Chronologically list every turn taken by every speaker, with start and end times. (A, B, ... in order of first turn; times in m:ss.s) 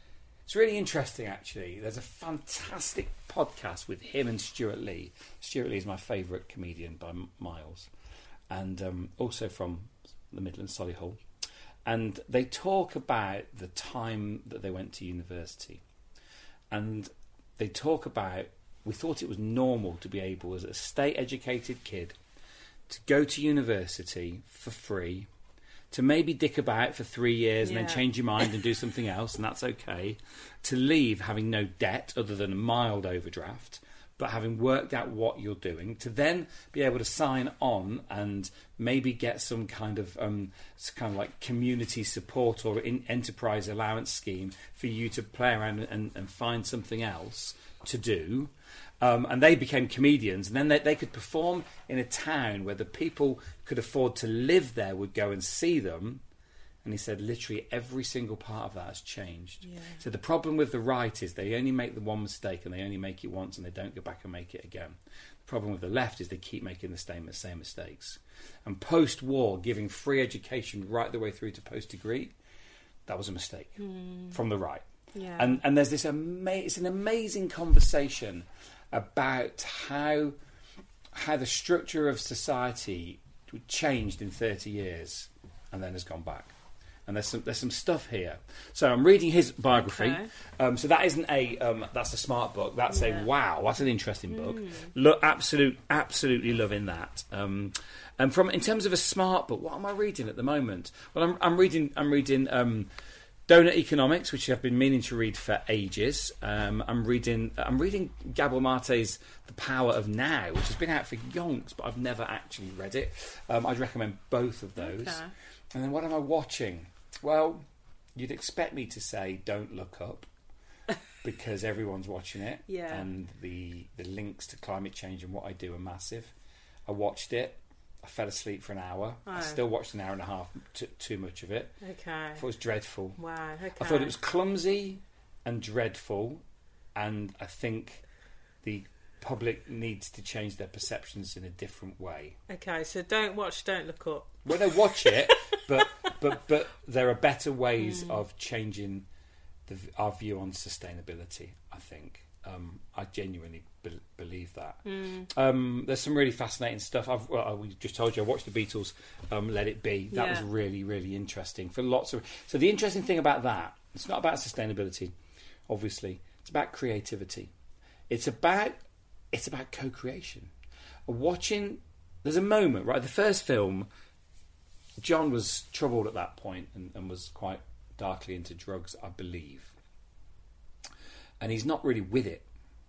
0:00.4-0:07.9 A
0:08.5-0:11.2 A
0:11.8-0:15.8 A
0:16.7-0:22.2 A
0:22.9-0:25.3 A
0:25.9-0:56.2 A
0:27.6-0:28.0 B
0:56.8-1:12.3 A
0:59.6-1:00.0 B
1:13.0-1:13.8 A
1:13.8-1:14.4 B
1:14.3-1:20.4 A
1:15.1-1:15.6 B
1:21.1-1:26.5 A
1:27.0-1:42.9 A
1:29.8-1:30.3 B
1:32.9-1:33.2 B
1:34.3-1:34.9 B
1:43.5-1:57.6 A
1:54.8-1:55.3 B
1:58.2-2:00.3 A
2:01.2-2:06.3 A
2:02.7-2:03.1 B
2:06.9-2:11.8 A
2:09.2-2:09.6 B
2:11.8-2:12.4 B
2:12.4-2:13.2 A
2:13.2-2:14.1 B
2:13.8-2:16.4 A
2:16.9-2:18.0 A
2:18.6-2:22.4 A
2:22.5-2:24.4 B
2:24.4-2:29.0 A
2:27.8-2:28.2 B
2:29.7-2:45.1 A
2:34.8-2:35.3 B
2:40.1-2:40.5 B
2:45.7-2:47.5 A
2:48.1-2:48.8 A
2:49.3-2:50.5 A
2:51.0-2:53.9 A
2:55.0-2:59.7 A
3:01.4-3:02.5 A